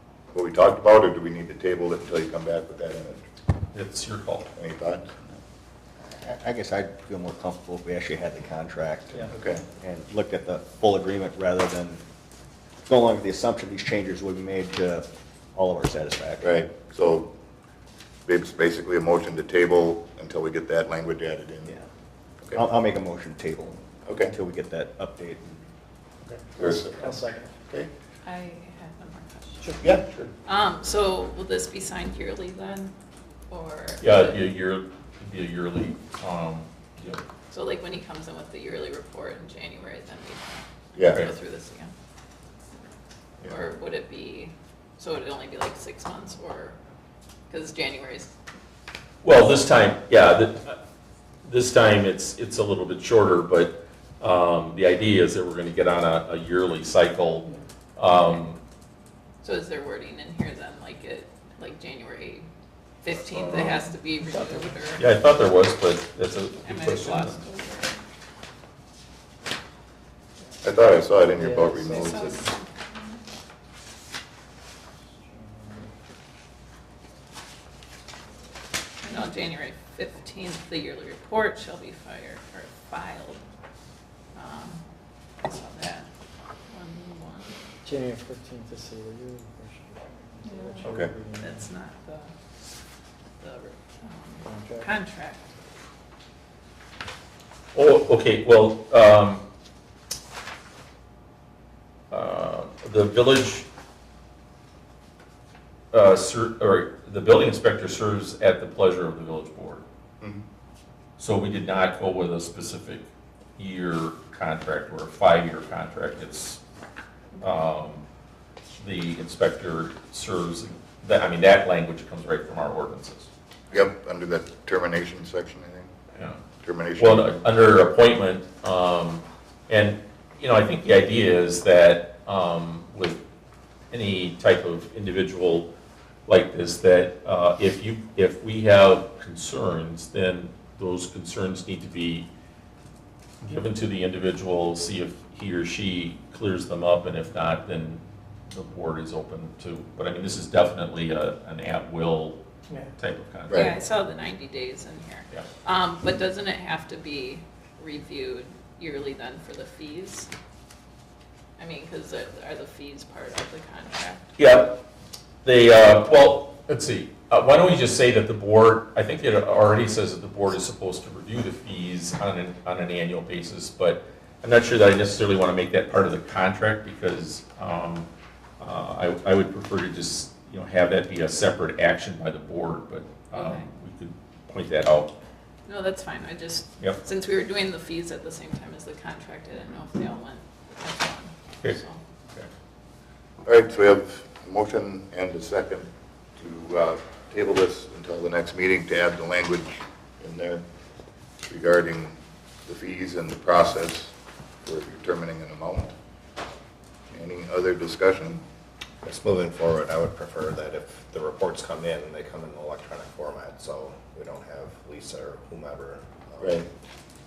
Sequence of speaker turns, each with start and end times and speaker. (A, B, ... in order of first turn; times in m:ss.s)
0:00.3-0:03.2 A
0:03.7-0:04.5 B
0:04.5-0:05.4 A
0:06.0-0:12.0 C
0:09.3-0:09.6 A
0:12.9-0:16.6 C
0:16.4-0:17.3 A
0:18.3-0:21.7 A
0:22.5-0:25.6 C
0:24.0-0:24.3 A
0:26.5-0:27.9 A
0:27.0-0:27.5 D
0:28.2-0:29.8 E
0:29.8-0:30.3 A
0:30.4-0:32.9 E
0:33.5-0:34.4 E
0:34.0-0:37.2 B
0:37.5-0:41.9 E
0:41.0-0:41.2 A
0:43.4-0:46.8 E
0:47.5-0:48.3 E
0:49.2-0:50.8 B
0:51.4-0:58.6 B
0:59.4-1:02.5 E
1:03.0-1:05.1 E
1:03.4-1:03.8 B
1:05.0-1:07.4 B
1:06.6-1:08.0 E
1:10.6-1:12.5 A
1:11.4-1:11.9 D
1:11.9-1:13.2 E
1:15.3-1:15.9 D
1:19.0-1:23.4 E
1:24.4-1:24.8 E
1:25.4-1:26.1 E
1:26.7-1:27.5 E
1:27.9-1:31.5 D
1:30.4-1:32.3 E
1:30.8-1:31.1 A
1:33.4-1:35.5 E
1:34.5-1:34.8 D
1:37.7-1:39.4 B
1:42.1-1:43.7 B
1:45.9-1:49.8 B
1:51.2-1:53.1 B
1:53.6-1:56.6 B
1:57.4-1:58.0 B
1:58.8-2:03.3 B
2:03.7-2:05.9 A
2:06.1-2:06.4 B
2:06.6-2:07.4 A
2:07.0-2:13.2 B
2:13.9-2:15.7 B
2:16.3-2:22.3 B
2:23.4-2:32.4 B
2:33.0-2:33.7 B
2:33.5-2:33.7 A
2:33.5-2:40.3 E
2:41.6-2:44.3 E
2:44.4-2:44.8 B
2:45.4-2:58.1 B
2:58.6-3:05.1 B
3:03.3-3:03.7 E
3:05.7-3:12.0 E
3:13.4-3:20.6 A
3:21.4-3:25.9 A
3:27.1-3:28.4 A
3:29.0-3:36.6 F
3:29.2-3:30.0 C
3:36.4-3:36.7 A